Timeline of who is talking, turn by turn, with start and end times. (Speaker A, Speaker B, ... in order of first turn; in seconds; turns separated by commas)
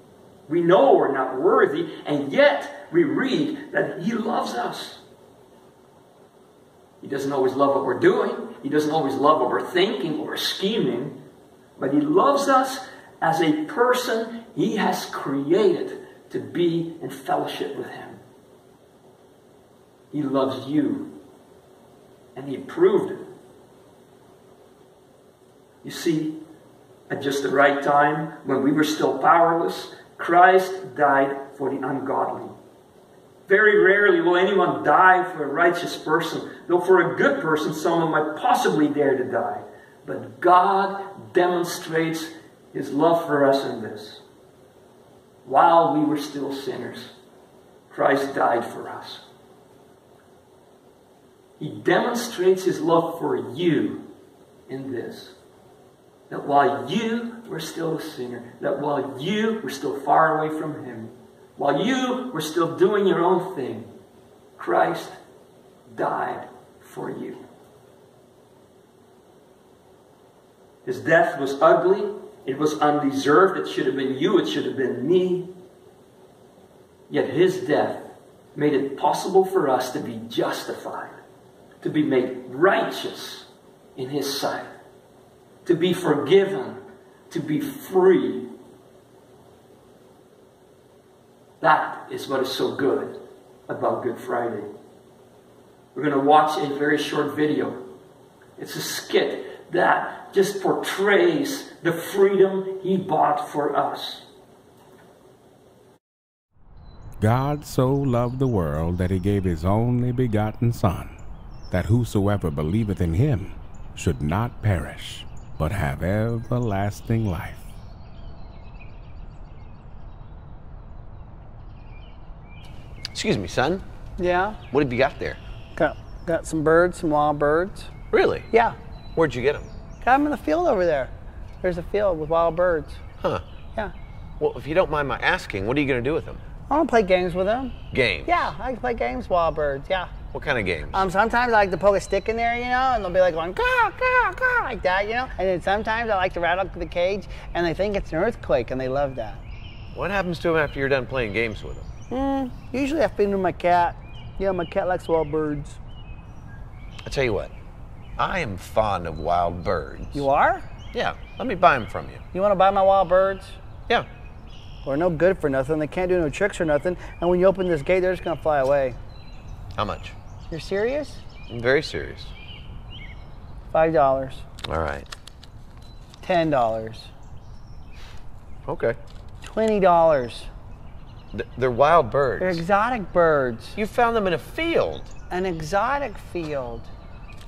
Speaker A: 0.5-5.0, Speaker A: 7.0-11.2, Speaker A: 11.8-18.2, Speaker A: 20.1-21.1, Speaker A: 22.4-23.2, Speaker A: 25.8-26.4, Speaker A: 27.1-32.5, Speaker A: 33.5-44.2, Speaker A: 45.5-47.1, Speaker A: 47.9-49.2, Speaker A: 51.6-54.0, Speaker A: 54.7-55.4, Speaker A: 56.3-63.9, Speaker A: 64.6-65.2, Speaker A: 65.9-67.4, Speaker A: 70.8-75.5, Speaker A: 77.1-81.2, Speaker A: 81.8-84.7, Speaker A: 85.7-86.8, Speaker A: 87.3-88.5, Speaker A: 91.6-94.7, Speaker A: 95.9-97.8, Speaker A: 98.6-104.3, Speaker B: 107.2-117.7, Speaker C: 123.1-123.8, Speaker D: 124.2-124.6, Speaker C: 124.7-125.4, Speaker D: 125.8-127.9, Speaker C: 128.1-128.5, Speaker D: 128.5-128.8, Speaker C: 129.2-129.7, Speaker D: 130.0-133.0, Speaker C: 134.4-136.4, Speaker D: 136.7-140.1, Speaker C: 137.9-138.4, Speaker C: 140.3-141.1, Speaker D: 140.9-149.4, Speaker C: 149.9-151.9, Speaker D: 152.1-155.8, Speaker C: 157.1-157.5, Speaker C: 158.2-160.3, Speaker D: 160.2-160.7, Speaker C: 160.9-162.2, Speaker D: 162.3-163.6, Speaker D: 164.8-169.0, Speaker C: 169.8-170.2, Speaker D: 170.5-171.2, Speaker C: 171.5-172.3, Speaker D: 173.7-174.4, Speaker C: 174.7-175.1, Speaker D: 176.2-177.1, Speaker C: 178.7-179.0, Speaker D: 179.4-180.5, Speaker C: 181.3-182.6, Speaker D: 182.4-183.8, Speaker C: 183.8-185.1, Speaker D: 185.3-186.9